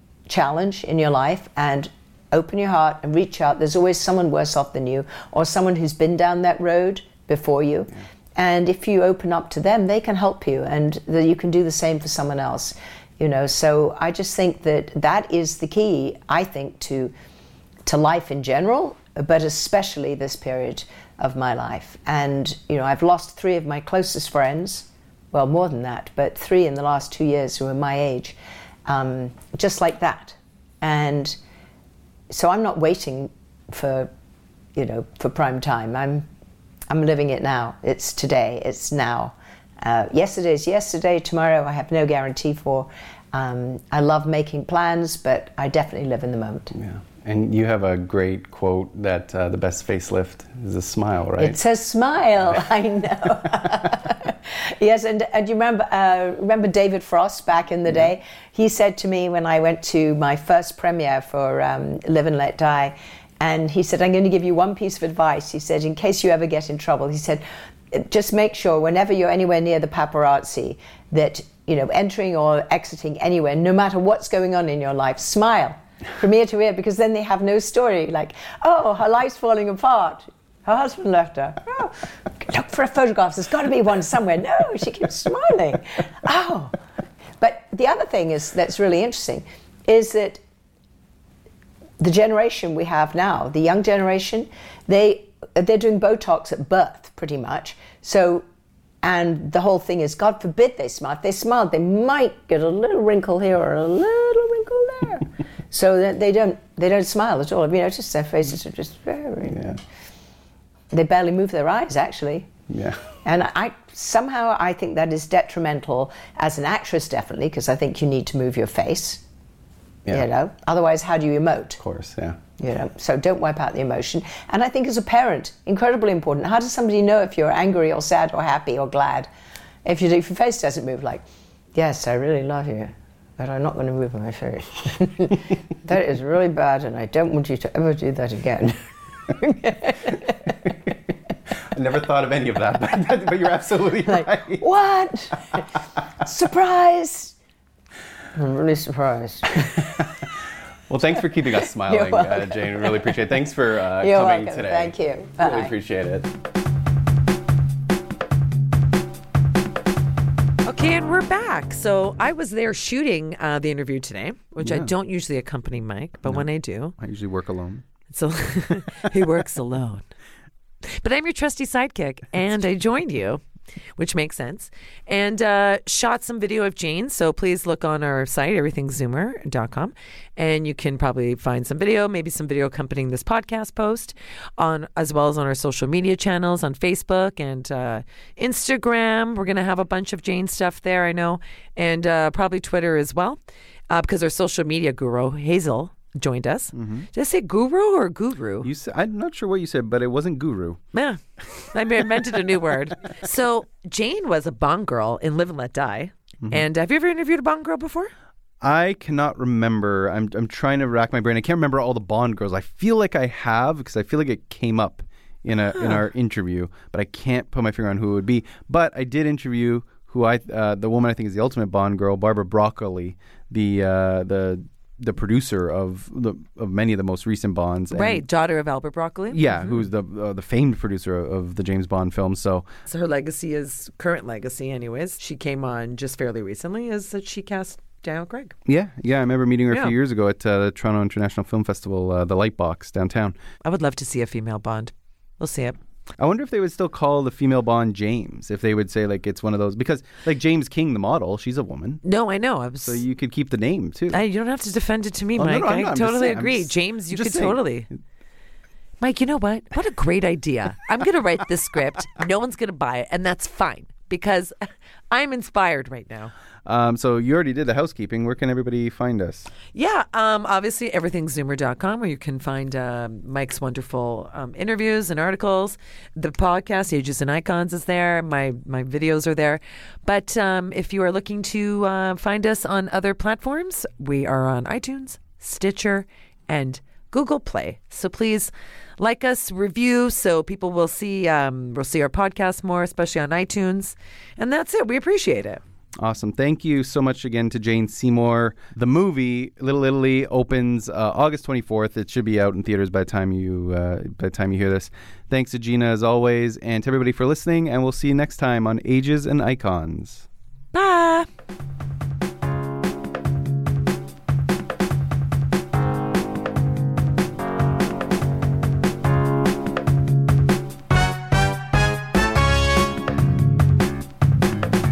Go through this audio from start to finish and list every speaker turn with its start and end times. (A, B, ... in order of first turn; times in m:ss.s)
0:00.3-0:17.1 A
0:17.8-0:28.4 A
0:28.9-0:31.4 A
0:32.3-0:34.1 A
0:34.7-0:36.3 A
0:36.9-0:46.7 A
0:46.7-0:51.6 B
0:51.4-1:26.8 A
1:27.4-1:30.4 A
1:32.0-1:38.4 A
1:39.0-1:49.7 A
1:49.5-1:49.8 B
1:50.9-1:52.5 A
1:52.7-1:53.0 B
1:53.2-1:59.2 A
2:00.1-2:01.8 A
2:01.8-2:02.4 B
2:02.6-2:09.3 A
2:09.8-2:20.5 A
2:21.7-2:24.6 B
2:24.1-2:27.4 A
2:28.3-2:30.1 A
2:30.9-2:36.3 B
2:31.8-2:33.1 A
2:34.0-2:35.7 A
2:40.6-2:46.9 C
2:44.6-2:44.9 B
2:46.2-2:47.8 B
2:48.1-2:50.1 C
2:50.8-2:53.4 C
2:54.0-3:13.4 C
3:13.9-3:18.7 C
3:16.7-3:17.1 B
3:18.6-3:20.8 B
3:20.9-3:28.1 C
3:28.6-3:48.2 B
3:47.9-3:49.8 C
3:49.3-3:52.7 B
3:52.9-3:58.6 C
3:58.6-4:03.4 B
4:03.6-4:05.8 C
4:06.2-4:12.0 B
4:12.0-4:13.0 C
4:12.8-4:14.2 B
4:14.1-4:17.9 C
4:15.3-4:17.6 B
4:19.0-4:24.5 C
4:25.1-4:26.3 C
4:26.6-4:29.5 B
4:29.7-4:55.6 C
4:56.0-5:10.2 B
5:10.7-5:11.3 C